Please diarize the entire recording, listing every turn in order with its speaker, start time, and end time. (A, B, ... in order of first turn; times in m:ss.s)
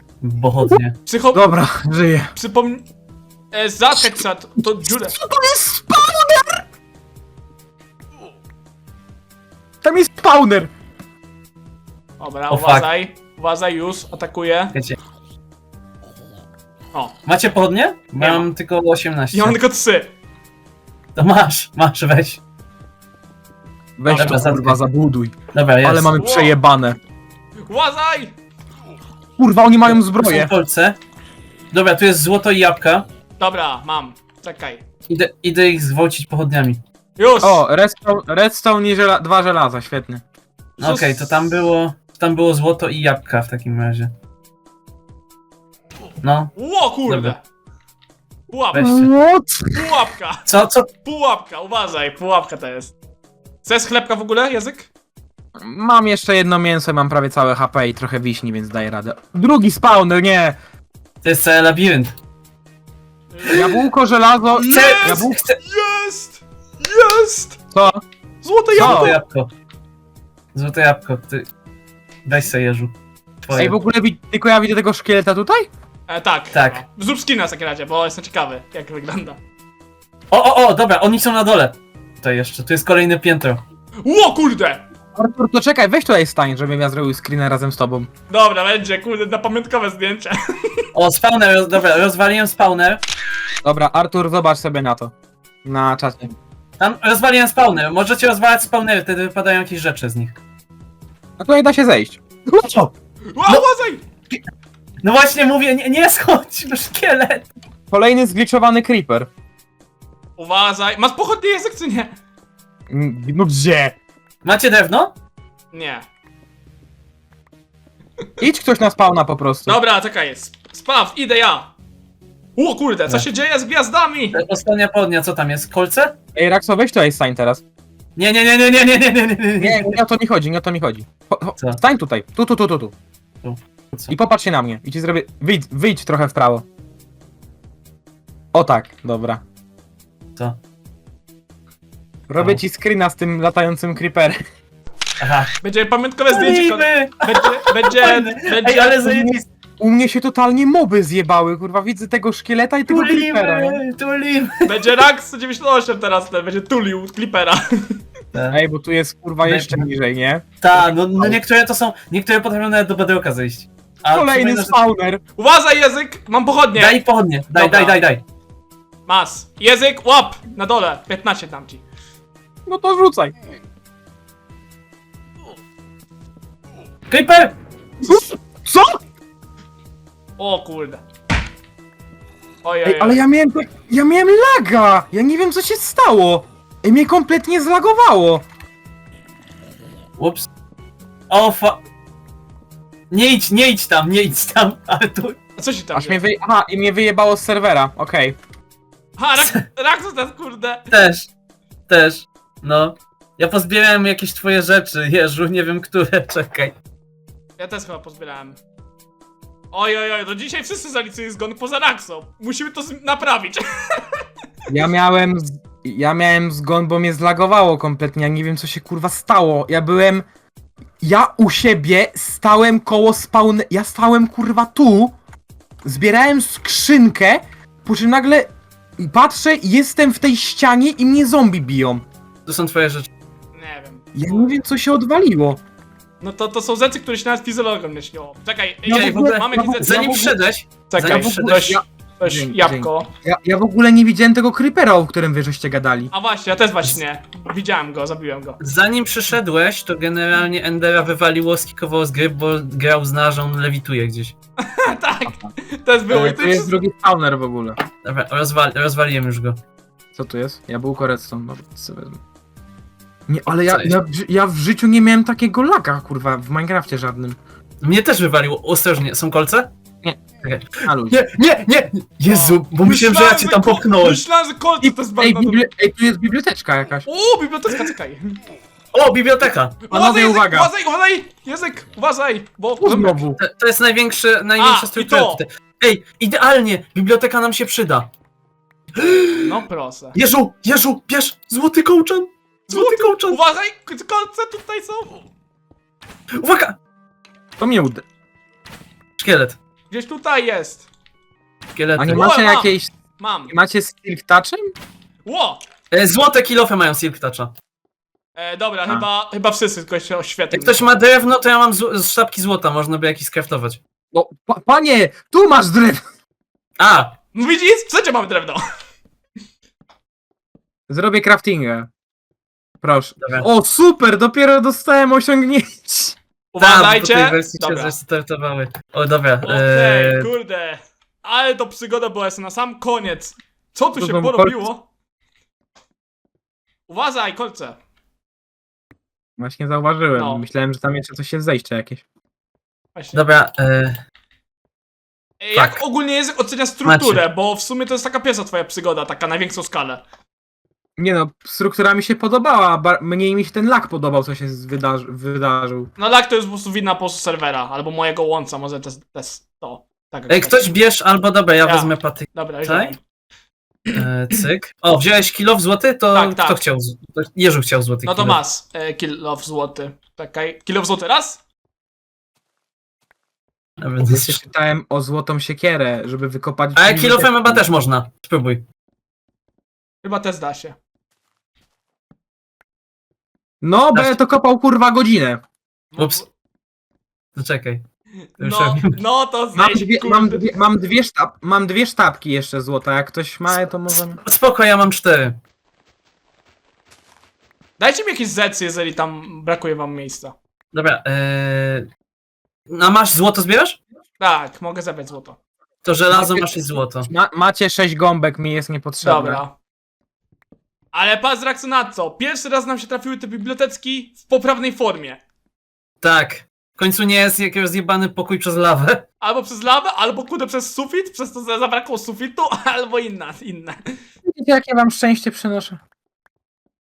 0:00.2-0:01.0 A
0:01.1-0:01.6 B
0:01.3-0:02.3 C
0:02.3-0:02.9 B
0:03.5-0:05.2 B
0:05.1-0:06.6 C
0:09.8-0:10.7 C
0:12.2-0:14.7 B
0:12.5-0:12.9 A
0:17.3-0:19.6 A
0:18.2-0:18.5 B
0:19.3-0:20.1 B
0:21.2-0:22.4 A
0:24.0-0:27.0 C
0:24.1-0:24.4 B
0:24.1-0:24.8 A
0:25.5-0:26.1 A
0:26.2-0:26.6 B
0:27.6-0:28.4 B
0:29.4-0:30.5 C
0:29.9-0:31.0 A
0:31.7-0:33.1 A
0:33.4-0:34.8 B
0:35.1-0:36.8 A
0:37.2-0:37.6 B
0:37.4-0:40.2 C
0:40.8-0:44.1 A
0:40.8-0:41.6 B
0:46.2-0:46.5 A
0:46.6-0:47.4 B
0:47.1-0:47.4 A
0:48.5-0:48.9 B
0:48.7-0:49.1 A
0:48.8-0:49.8 C
0:49.7-0:52.9 B
0:50.5-0:50.9 A
0:53.6-0:54.9 B
0:55.6-1:00.6 C
1:01.2-1:02.2 A
1:03.3-1:03.6 B
1:03.5-1:05.4 C
1:04.6-1:07.6 B
1:04.7-1:05.6 A
1:07.7-1:08.0 C
1:08.4-1:09.2 B
1:08.8-1:09.2 C
1:08.8-1:09.5 A
1:10.5-1:11.5 A
1:12.2-1:13.8 A
1:13.6-1:15.7 C
1:16.1-1:19.4 B
1:16.5-1:16.8 A
1:20.3-1:23.6 A
1:24.0-1:24.8 B
1:25.2-1:28.1 C
1:28.3-1:30.8 B
1:30.9-1:33.0 A
1:33.6-1:35.1 C
1:35.6-1:36.3 C
1:36.8-1:40.4 A
1:41.4-1:42.9 C
1:43.3-1:44.0 B
1:45.0-1:47.5 A
1:47.9-1:49.3 C
1:50.4-1:52.1 B
1:52.9-1:54.0 C
1:54.4-1:55.1 A
1:55.7-1:56.0 B
1:58.4-1:59.8 C
1:59.7-2:01.7 B
2:02.6-2:04.4 B
2:04.3-2:06.2 A
2:06.4-2:07.6 C
2:08.2-2:10.0 A
2:09.6-2:12.9 C
2:13.4-2:14.1 A
2:14.1-2:16.6 C
2:18.5-2:19.4 C
2:22.3-2:24.4 C
2:25.2-2:25.5 A
2:25.6-2:29.0 B
2:26.3-2:29.4 A
2:29.0-2:33.8 C
2:32.9-2:34.9 A
2:34.7-2:38.0 B
2:38.5-2:40.5 C
2:39.4-2:39.9 A
2:40.6-2:44.8 A
2:44.1-2:45.2 C
2:45.4-2:47.0 B
2:46.8-2:48.2 A
2:47.5-2:48.0 B
2:49.1-2:51.8 B
2:52.7-2:53.3 C
2:57.1-2:57.6 A
2:58.0-2:59.0 C
3:00.4-3:01.0 B
3:02.6-3:03.2 B
3:02.9-3:08.4 C
3:10.2-3:10.5 A
3:11.3-3:11.8 A
3:13.1-3:15.4 A
3:15.6-3:16.2 B
3:16.0-3:18.4 C
3:19.2-3:20.8 B
3:20.9-3:21.3 A
3:21.9-3:26.7 A
3:27.6-3:28.6 B
3:29.7-3:34.2 B
3:34.7-3:40.2 C
3:41.0-3:45.1 C
3:45.8-3:52.0 C
3:52.5-3:53.1 A
3:53.5-3:54.5 B
3:54.1-3:55.6 C
3:56.2-4:00.1 B
3:58.9-4:00.4 C
3:58.9-4:01.6 A
4:00.9-4:03.1 B
4:01.0-4:06.1 C
4:06.1-4:08.6 B
4:08.6-4:14.4 A
4:14.6-4:16.8 B
4:16.1-4:17.8 C
4:18.0-4:19.6 A
4:20.2-4:22.2 C
4:23.3-4:27.4 C
4:23.7-4:24.0 A
4:27.8-4:29.7 A
4:30.4-4:34.2 A
4:30.8-4:31.2 C
4:32.3-4:35.6 B
4:34.8-4:37.1 C
4:37.1-4:38.4 B
4:38.9-4:39.8 A
4:39.9-4:43.2 B
4:39.9-4:40.7 C
4:42.8-4:43.4 C
4:43.4-4:48.1 A
4:44.6-4:45.4 B
4:49.0-4:49.5 A
4:49.2-4:50.2 B
4:50.2-4:53.4 A
4:52.7-4:55.2 B
4:56.4-4:56.8 A
4:57.6-4:58.0 C
4:59.2-4:59.6 A
4:59.9-5:00.9 B
5:01.8-5:02.3 A
5:02.0-5:02.9 C
5:02.1-5:03.5 B
5:03.5-5:04.7 C
5:05.2-5:05.6 B
5:05.9-5:07.5 A
5:08.4-5:10.9 B
5:10.5-5:13.8 A
5:14.1-5:16.0 C
5:16.8-5:17.1 A
5:17.3-5:18.6 B
5:20.9-5:21.9 C
5:22.8-5:26.2 C
5:26.5-5:28.0 B
5:26.6-5:30.3 A
5:29.4-5:34.8 B
5:34.0-5:34.7 C
5:36.9-5:37.8 B
5:39.4-5:42.0 C
5:40.2-5:40.4 B
5:43.0-5:43.3 B
5:43.1-5:44.0 A
5:45.4-5:50.0 B
5:45.5-5:45.8 A
5:46.8-5:47.2 A
5:51.0-5:55.9 C
5:56.0-6:00.6 B
6:00.3-6:03.0 A
6:01.6-6:03.0 B
6:03.9-6:08.4 A
6:06.1-6:06.6 B
6:08.0-6:11.4 B
6:13.8-6:14.4 A
6:14.0-6:17.6 C
6:16.8-6:18.6 A
6:20.0-6:20.8 B
6:23.6-6:25.4 C
6:25.9-6:26.3 B
6:27.4-6:27.8 A
6:28.4-6:30.4 B
6:28.4-6:29.0 A
6:29.6-6:34.2 C
6:33.9-6:35.4 A
6:37.8-6:40.3 B
6:40.7-6:41.9 A
6:42.7-6:43.8 A
6:44.2-6:45.4 B
6:45.8-6:47.1 A
6:46.1-6:46.5 C
6:47.1-6:49.4 C
6:49.0-6:49.5 B
6:50.9-6:55.2 B
6:56.0-6:59.0 A
6:59.2-7:04.0 B
7:04.3-7:05.8 C